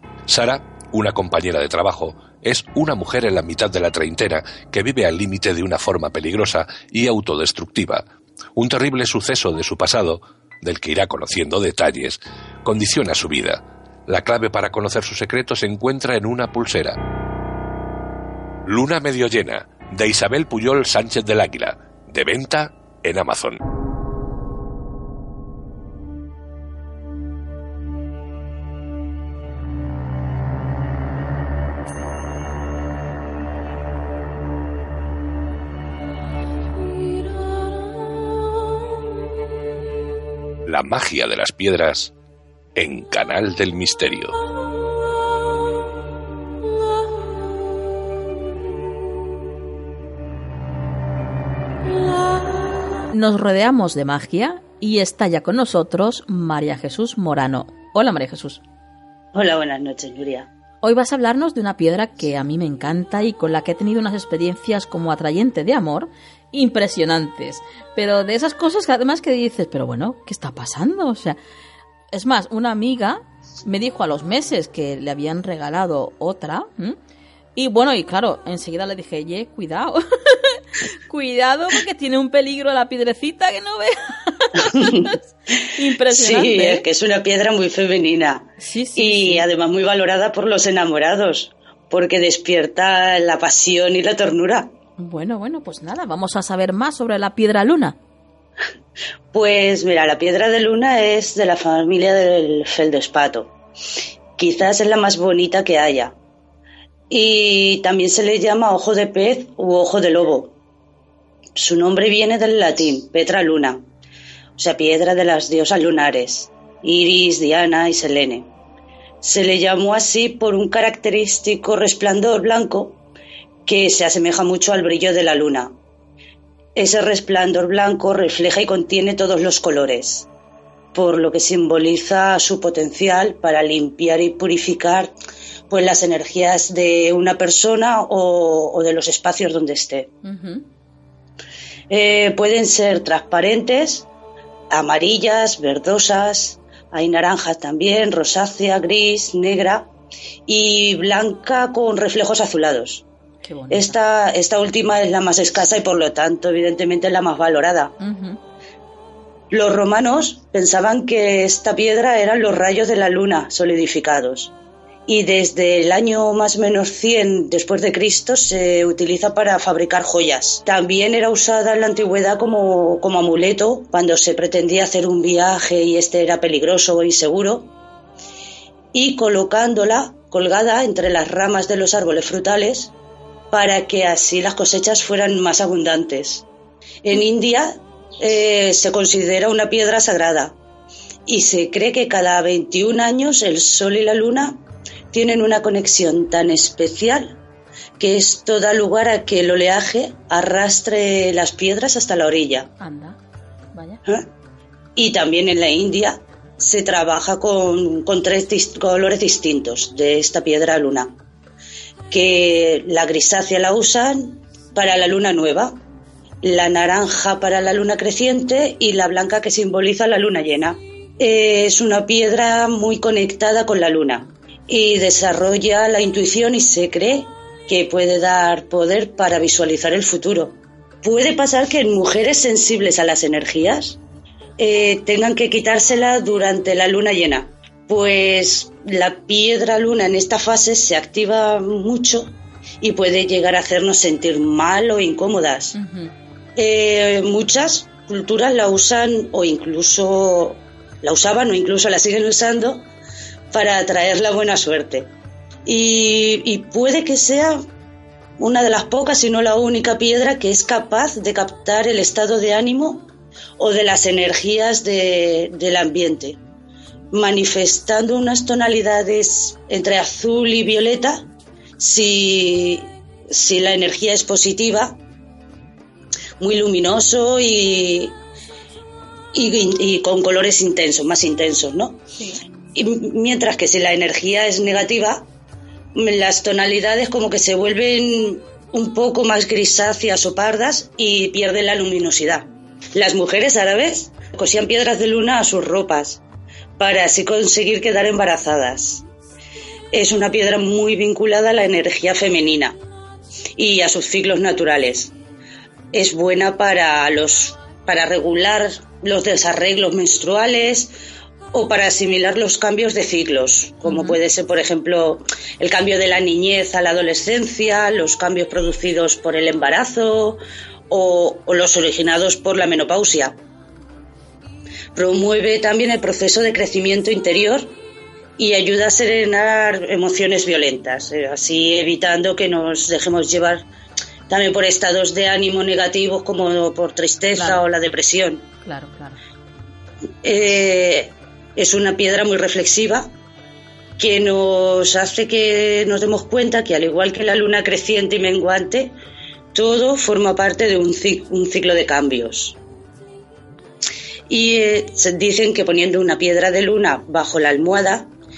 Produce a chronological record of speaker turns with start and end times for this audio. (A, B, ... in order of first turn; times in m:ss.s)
0:00.3-0:17.0 A
0:18.6-0:23.6 A
0:40.6-0:42.1 A
0:42.8-0:44.4 A
0:53.1-0:58.6 B
0:59.3-1:00.5 C
1:00.8-1:11.4 B
1:12.1-1:17.0 B
1:17.6-1:26.8 B
1:24.6-1:25.1 C
1:26.1-1:34.7 C
1:28.6-1:29.5 B
1:35.0-1:38.0 B
1:39.3-1:43.5 C
1:44.4-1:46.1 C
1:47.1-1:50.5 C
1:51.6-1:53.8 C
1:54.6-1:58.5 C
1:59.2-2:03.0 C
2:03.6-2:05.7 C
2:06.7-2:10.3 C
2:10.9-2:15.1 C
2:15.7-2:20.1 C
2:20.2-2:20.6 B
2:21.9-2:24.1 C
2:24.7-2:29.9 C
2:30.5-2:33.0 C
2:33.4-2:34.0 B
2:33.7-2:37.9 C
2:38.0-2:38.4 B
2:39.5-2:44.5 C
2:45.1-2:57.7 C
2:58.9-3:02.9 C
3:03.5-3:06.4 C
3:07.0-3:10.5 C
3:11.3-3:14.6 C
3:15.1-3:17.4 C
3:18.0-3:22.7 C
3:22.8-3:23.2 B
3:23.7-3:24.0 B
3:25.0-3:31.1 C
3:32.1-3:35.8 C
3:36.4-3:54.0 C
3:54.6-4:05.8 C
4:05.7-4:06.1 B
4:06.6-4:12.9 C
4:13.5-4:15.1 C
4:15.6-4:17.6 C
4:18.4-4:23.1 C
4:23.6-4:26.4 C
4:27.1-4:31.3 C
4:31.8-4:35.0 C
4:36.4-4:38.2 C
4:39.3-4:42.0 C
4:42.7-4:45.3 C
4:45.9-4:56.2 C
4:56.8-4:59.0 C
4:59.9-5:02.8 C
5:03.6-5:05.1 C
5:05.9-5:10.9 C
5:11.5-5:23.4 C
5:13.8-5:14.2 B
5:24.9-5:27.7 C
5:28.4-5:33.7 C
5:34.3-5:38.4 C
5:37.4-5:37.6 B
5:38.6-5:39.2 B
5:40.2-5:43.1 C
5:44.0-5:48.9 C
5:49.5-5:52.6 C
5:54.3-5:58.1 C